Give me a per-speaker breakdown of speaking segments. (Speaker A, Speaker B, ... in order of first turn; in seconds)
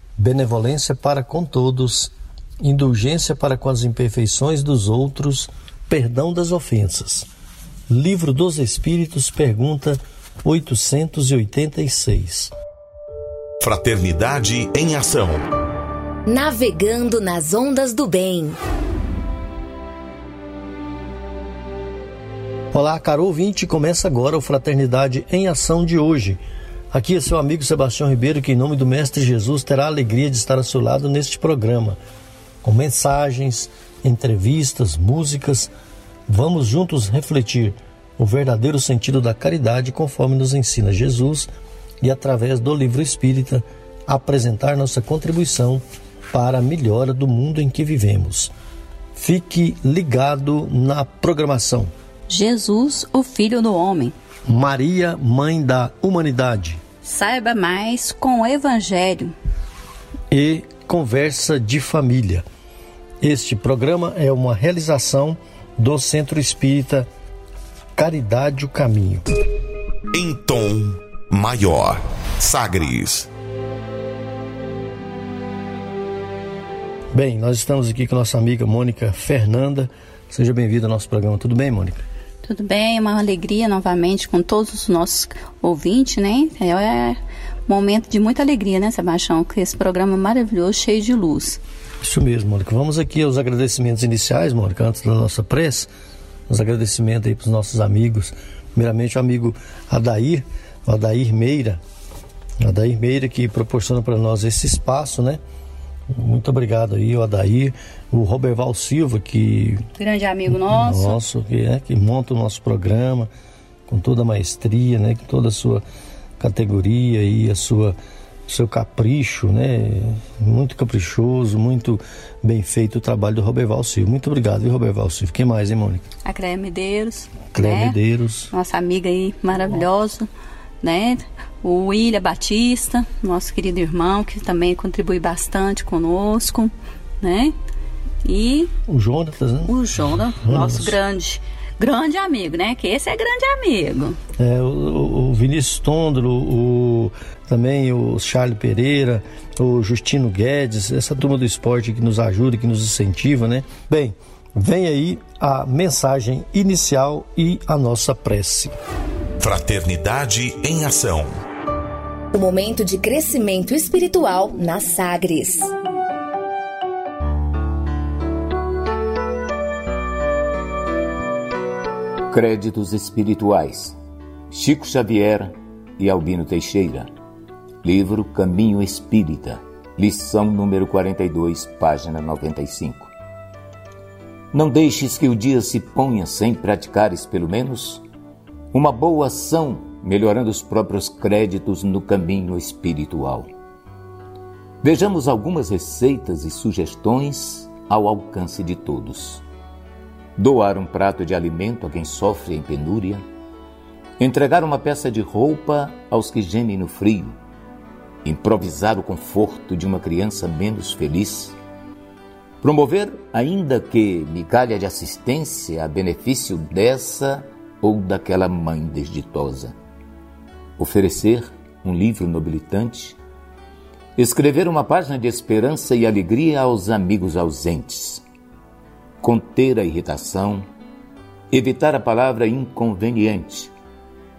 Speaker A: 0.2-7.3, 7.9-12.5, 22.7-26.4, 26.9-32.0, 32.6-35.7, 36.3-41.5, 42.0-48.5, 49.2-51.9, 54.5-56.8, 60.3-62.5, 63.2-67.1, 68.0-69.3, 77.1-82.0, 92.0-95.9, 96.5-101.8, 102.6-105.4, 106.1-109.9, 110.7-113.3, 113.9-115.8, 116.4-118.0, 118.5-126.0, 127.5-128.5, 138.9-140.9, 144.4-158.8
Speaker B: 13.6-15.4, 70.1-73.3, 159.4-161.4
Speaker C: 16.3-18.6, 162.3-165.7
Speaker D: 52.3-54.1, 57.0-59.4, 82.4-91.6, 110.0-111.2, 126.2-128.0, 128.5-130.3, 130.8-137.5, 138.2-138.7, 139.7-144.2
Speaker E: 172.3-174.0, 174.5-177.1, 177.8-183.1, 184.5-188.0, 188.7-193.5, 194.8-199.4, 200.4-203.2, 204.2-207.4, 208.2-211.6, 212.6-219.8, 220.8-223.2, 224.2-228.2, 229.2-230.7, 231.5-233.7